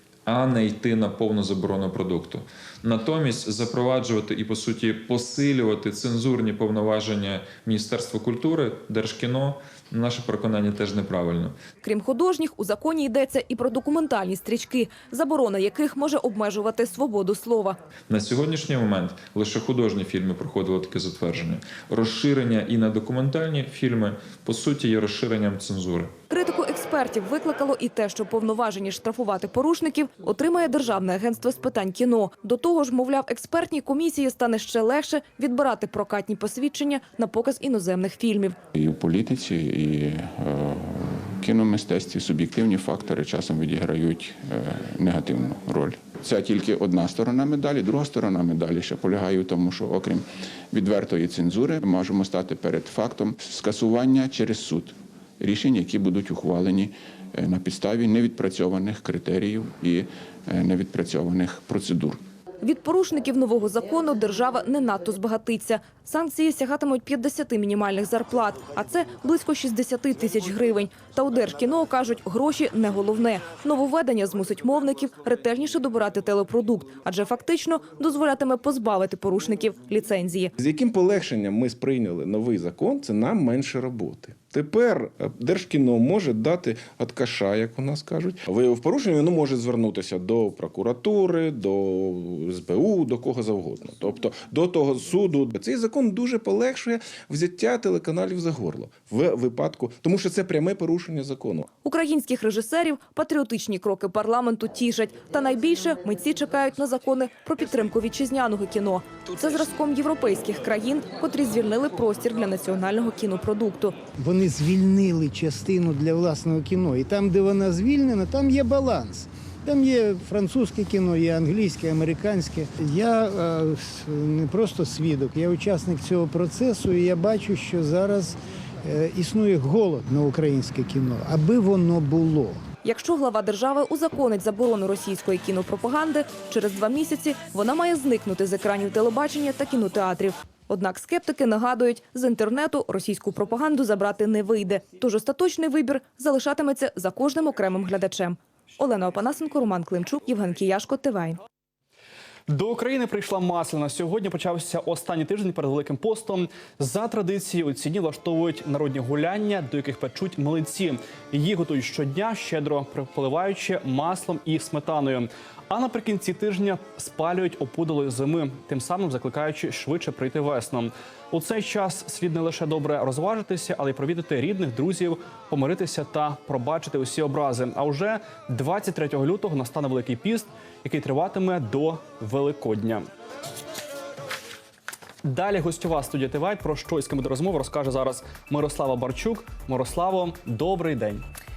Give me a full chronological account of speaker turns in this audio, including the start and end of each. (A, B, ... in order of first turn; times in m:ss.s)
0:00.3-0:11.6 A
0:11.8-0:17.8 B
0:18.1-0:26.1 A
0:26.3-0:38.6 B
0:38.8-1:02.2 C
1:02.6-1:20.5 B
1:20.6-1:41.6 D
1:41.8-1:54.0 B
1:54.2-2:12.6 E
2:12.8-2:31.4 B
2:32.5-3:03.1 F
3:05.2-3:11.2 F